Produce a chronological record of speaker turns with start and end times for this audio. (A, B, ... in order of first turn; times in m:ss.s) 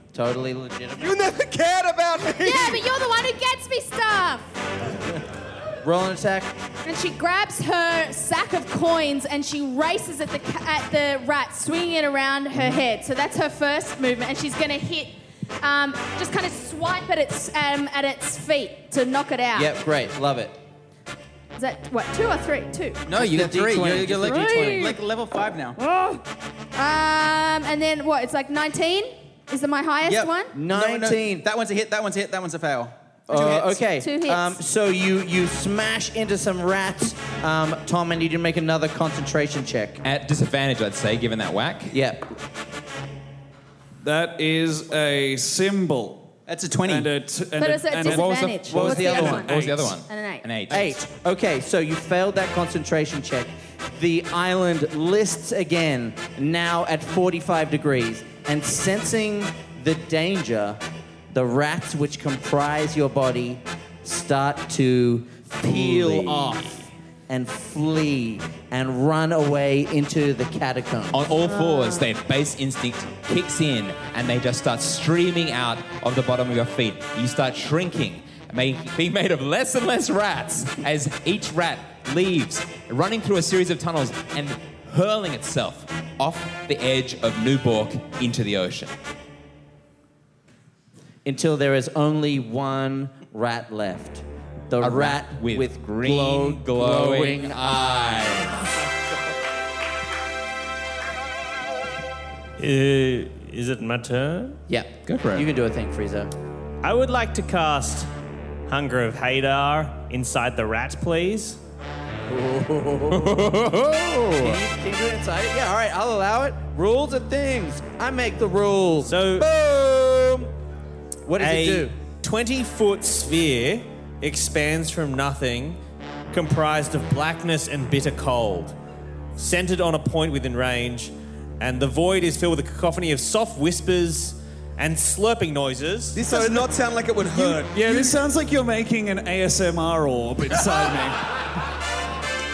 0:00.1-0:01.2 A
0:01.0-0:02.8 B
0:02.3-0:04.5 C
0:05.8-0:06.5 A
0:06.8-0:19.8 C
0:19.5-0:20.6 A
0:21.6-0:23.0 C
0:23.1-0:25.0 D
0:23.2-0:25.8 E
0:23.2-0:24.8 A
0:24.5-0:24.9 C
0:25.8-0:26.2 C
0:26.8-0:30.6 C
0:30.1-0:33.8 E
0:30.5-0:31.4 A
0:33.3-0:40.0 A
0:33.9-0:34.6 C
0:40.0-0:42.0 D
0:41.9-0:42.3 A
0:44.0-0:46.3 F
0:46.5-0:47.1 E
0:46.9-0:49.9 F
0:47.6-0:50.4 C
0:48.0-0:51.0 D
0:50.7-1:00.8 A
1:01.3-1:06.7 A
1:05.6-1:06.7 D
1:07.3-1:11.2 A
1:11.1-1:28.9 D
1:31.2-1:38.2 A
1:34.8-1:38.6 D
1:42.6-1:44.6 G
1:44.7-1:46.3 A
1:45.1-1:45.5 D
1:46.8-1:48.1 G
1:48.7-1:51.6 G
1:52.3-1:53.5 A
1:53.1-1:54.6 D
1:54.3-2:00.5 A
1:59.1-1:59.5 G
2:01.3-2:02.0 A
2:01.4-2:05.8 G
2:06.3-2:08.8 G
2:09.4-2:16.2 G
2:16.2-2:18.2 B
2:16.2-2:16.7 F
2:17.3-2:21.2 F